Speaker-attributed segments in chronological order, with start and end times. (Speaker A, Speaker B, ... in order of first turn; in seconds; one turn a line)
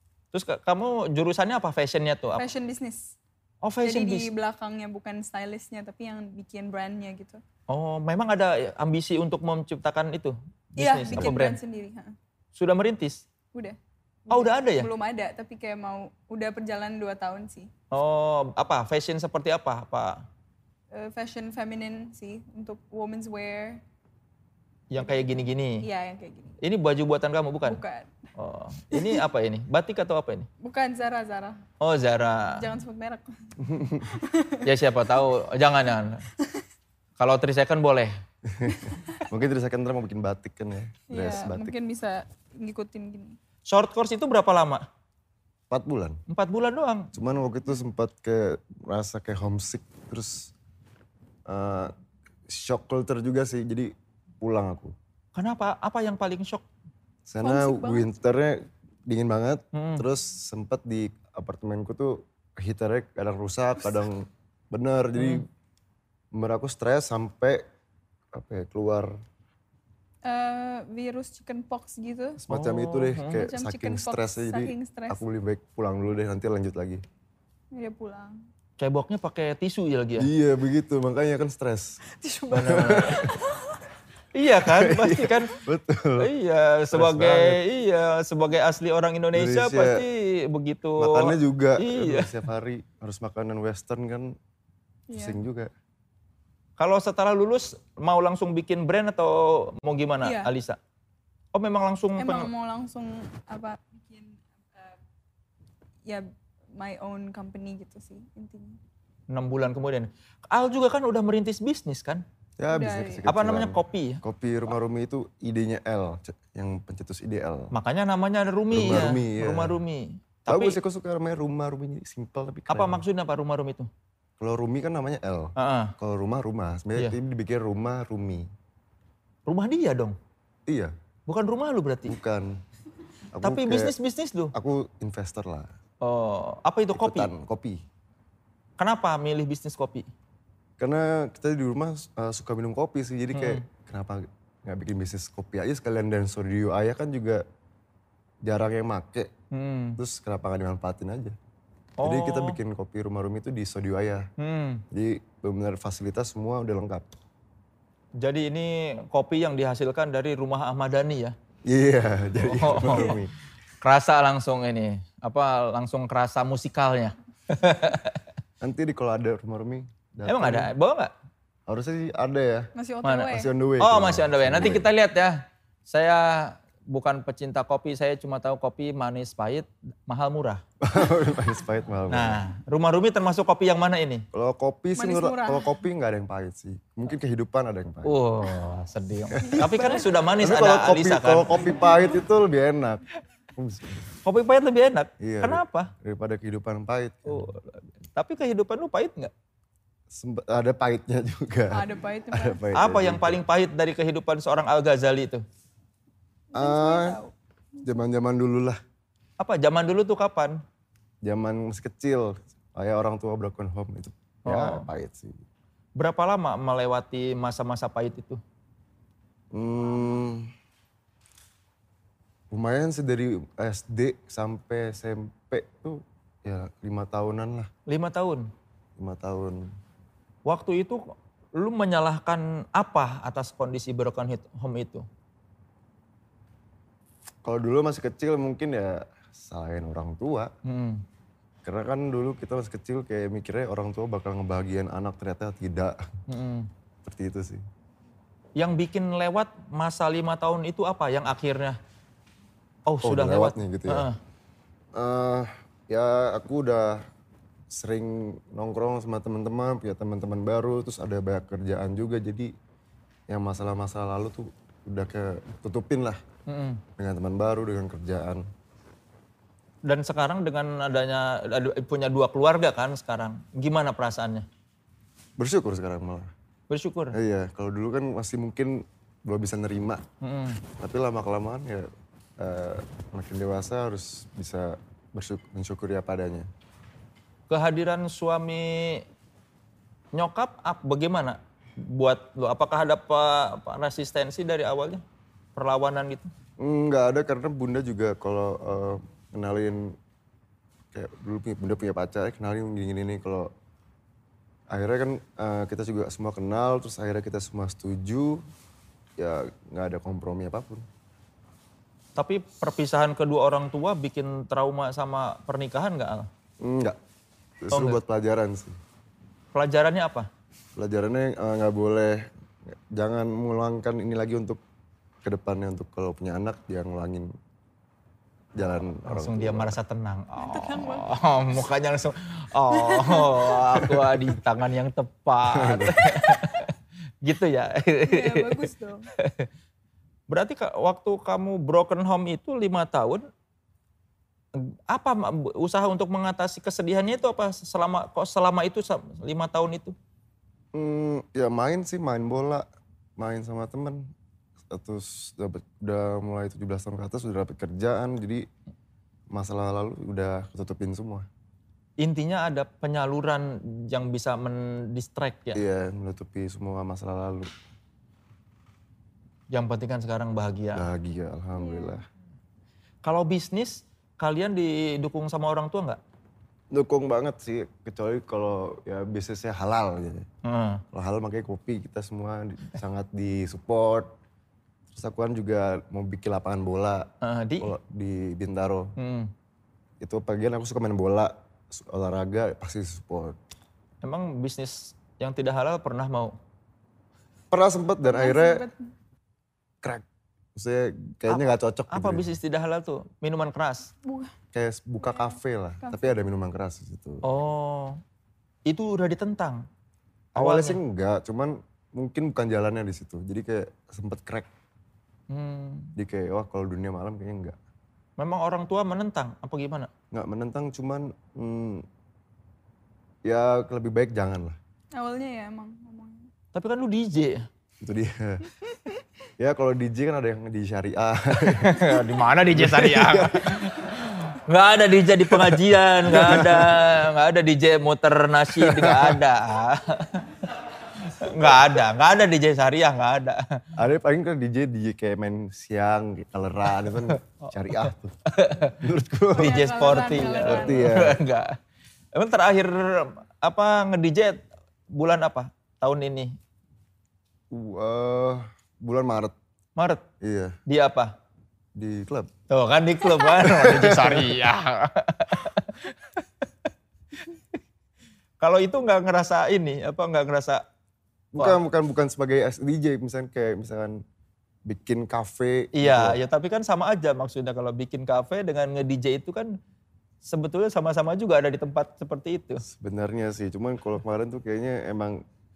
Speaker A: 0.3-2.5
Speaker B: 2.4-3.2
Speaker A: 3.6-4.3
Speaker B: 3.8-7.4
Speaker A: 7.7-11.6
Speaker B: 10.8-12.1
Speaker A: 12.6-13.2
Speaker B: 13.5-17.7
Speaker A: 14.3-14.9
Speaker A: 17.9-20.2
Speaker B: 20.9-23.8
Speaker A: 24.9-25.8
Speaker B: 25.0-26.6
Speaker A: 26.6-27.8
Speaker B: 27.6-28.1
Speaker A: 28.4-30.5
Speaker B: 28.9-29.2
Speaker B: 30.6-31.6
Speaker A: 31.8-32.6
Speaker B: 32.5-34.7
Speaker C: 33.6-34.2
Speaker A: 34.6-36.2
Speaker A: 37.2-38.1
Speaker C: 38.5-41.7
Speaker B: 38.7-39.2
Speaker B: 41.1-43.4
Speaker A: 43.7-44.9
Speaker C: 45.7-46.2
Speaker A: 46.3-47.1
Speaker C: 47.1-50.5
Speaker C: 51.5-51.9
Speaker C: 52.5-55.0
Speaker A: 55.3-56.6
Speaker C: 57.3-65.5
Speaker B: 57.4-58.1
Speaker A: 59.7-60.0
Speaker A: 65.2-65.5
Speaker C: 66.3-67.6
Speaker C: 68.3-69.1
Speaker B: 70.2-72.4
Speaker C: 72.4-77.0
Speaker A: 72.5-73.4
Speaker B: 73.3-75.2
Speaker B: 77.7-78.4
Speaker A: 78.8-80.3
Speaker C: 80.2-82.0
Speaker B: 82.0-83.8
Speaker A: 82.5-83.2
Speaker C: 82.7-83.3
Speaker A: 84.3-85.5
Speaker C: 84.6-86.3
Speaker A: 86.2-92.4
Speaker C: 86.9-87.6
Speaker C: 89.3-90.0
Speaker C: 91.0-94.4
Speaker B: 95.1-95.4
Speaker C: 95.2-95.7
Speaker A: 96.8-100.8
Speaker B: 100.2-100.5
Speaker A: 101.5-102.5
Speaker B: 102.2-105.0
Speaker B: 106.0-108.8
Speaker A: 109.3-112.2
Speaker C: 112.6-117.7
Speaker B: 112.7-113.2
Speaker A: 113.3-114.2
Speaker A: 117.7-120.8
Speaker C: 118.7-119.8
Speaker C: 120.5-123.0
Speaker A: 122.7-123.9
Speaker C: 124.4-128.5
Speaker A: 125.6-125.9
Speaker A: 129.5-130.2
Speaker C: 130.7-130.9
Speaker A: 131.3-132.2
Speaker C: 132.1-132.6
Speaker C: 133.3-133.9
Speaker A: 133.4-134.5
Speaker C: 134.5-135.7
Speaker A: 136.0-137.3
Speaker C: 136.9-137.8
Speaker A: 138.8-140.1
Speaker C: 140.8-147.4
Speaker A: 143.3-143.6
Speaker C: 148.4-149.3
Speaker A: 149.5-150.0
Speaker C: 150.0-151.3
Speaker A: 152.0-152.6
Speaker C: 152.0-154.3
Speaker A: 154.4-154.8
Speaker C: 154.9-157.1
Speaker A: 158.2-161.3
Speaker C: 161.7-163.3
Speaker A: 162.4-163.3
Speaker A: 163.8-168.2
Speaker C: 168.6-170.7
Speaker A: 170.3-171.1
Speaker C: 171.7-172.7
Speaker B: 172.8-173.5
Speaker A: 173.0-180.6
Speaker C: 173.3-174.8
Speaker C: 180.8-182.4
Speaker A: 182.1-184.2
Speaker C: 184.3-188.2
Speaker B: 185.0-185.8
Speaker A: 188.0-191.6
Speaker B: 189.3-190.1
Speaker C: 189.4-193.0
Speaker C: 193.6-194.1
Speaker A: 194.2-195.9
Speaker C: 195.2-197.5
Speaker A: 197.3-199.3
Speaker C: 200.1-203.4
Speaker B: 201.7-202.6
Speaker A: 202.8-205.4
Speaker B: 206.5-207.3
Speaker C: 206.5-207.2
Speaker C: 207.8-208.8
Speaker A: 209.4-210.6
Speaker C: 211.2-215.4
Speaker A: 214.5-214.8
Speaker A: 216.0-218.4
Speaker C: 219.5-220.5
Speaker C: 222.5-227.7
Speaker A: 227.9-228.5
Speaker C: 229.0-229.7
Speaker A: 230.4-235.1
Speaker C: 237.4-240.5
Speaker A: 240.7-241.0
Speaker C: 241.7-246.0
Speaker A: 246.3-246.7
Speaker C: 247.0-247.6
Speaker A: 248.6-251.8
Speaker A: 252.9-254.2
Speaker C: 253.0-254.1
Speaker C: 254.9-257.0
Speaker C: 257.7-262.5
Speaker C: 263.3-266.2
Speaker A: 266.5-266.8
Speaker C: 267.0-268.4
Speaker A: 269.8-274.5
Speaker C: 275.4-276.3
Speaker A: 276.7-277.2
Speaker C: 277.1-280.0
Speaker A: 280.2-280.6
Speaker C: 280.8-286.5
Speaker A: 287.5-289.0
Speaker A: 290.1-295.0
Speaker A: 295.6-296.3
Speaker C: 296.6-300.0
Speaker C: 300.9-303.5
Speaker C: 304.7-308.4
Speaker C: 309.2-310.9
Speaker A: 312.2-316.3
Speaker C: 316.6-317.0
Speaker C: 317.6-318.8
Speaker A: 317.7-318.0
Speaker A: 319.5-320.3
Speaker C: 320.8-324.6
Speaker C: 325.2-327.3
Speaker C: 328.5-329.8
Speaker A: 329.0-336.7
Speaker B: 330.4-331.1
Speaker B: 332.7-333.9
Speaker C: 333.8-334.4
Speaker C: 335.5-336.2
Speaker A: 337.2-338.6
Speaker B: 338.0-339.1
Speaker A: 339.2-339.5
Speaker A: 340.3-343.3
Speaker A: 344.5-349.9
Speaker C: 350.7-352.7
Speaker C: 353.2-354.1
Speaker C: 354.7-358.5
Speaker C: 359.3-361.3
Speaker A: 362.0-365.6
Speaker C: 365.5-367.5
Speaker A: 369.5-370.9
Speaker C: 370.7-372.0
Speaker B: 371.6-372.0
Speaker A: 373.0-376.0
Speaker C: 376.7-380.3
Speaker A: 380.4-380.8
Speaker C: 380.9-384.1
Speaker C: 384.9-388.9
Speaker A: 387.2-387.7
Speaker A: 389.0-389.3
Speaker C: 390.0-393.4
Speaker A: 394.0-396.4
Speaker C: 397.5-398.6
Speaker B: 398.0-398.8
Speaker C: 400.6-402.3
Speaker A: 401.3-403.9
Speaker B: 404.0-404.3
Speaker C: 404.5-407.2
Speaker B: 405.0-406.2
Speaker A: 407.2-408.0
Speaker A: 408.7-409.7
Speaker C: 410.3-414.5
Speaker A: 410.4-410.8
Speaker A: 415.3-415.9
Speaker C: 416.0-417.6
Speaker A: 418.2-419.9
Speaker C: 420.1-421.8
Speaker C: 423.2-424.6
Speaker B: 425.0-426.3
Speaker A: 426.5-427.5
Speaker C: 427.8-428.5
Speaker B: 428.6-429.0
Speaker C: 429.4-433.8
Speaker A: 431.4-440.3
Speaker C: 435.3-436.9
Speaker C: 438.6-439.2
Speaker A: 441.0-443.6
Speaker C: 441.2-441.8
Speaker C: 443.8-448.2
Speaker A: 446.9-448.8
Speaker C: 448.8-449.6
Speaker B: 449.3-451.0
Speaker A: 449.4-451.6
Speaker C: 450.2-451.2
Speaker A: 452.1-456.4
Speaker C: 457.5-459.3
Speaker A: 459.8-460.0
Speaker C: 460.2-460.6
Speaker A: 460.7-461.1
Speaker C: 461.8-462.3
Speaker A: 462.5-466.5
Speaker C: 463.3-464.4
Speaker A: 468.4-470.6
Speaker C: 471.3-474.0
Speaker C: 474.7-476.2
Speaker A: 475.8-479.6
Speaker A: 480.2-482.6
Speaker C: 482.6-485.2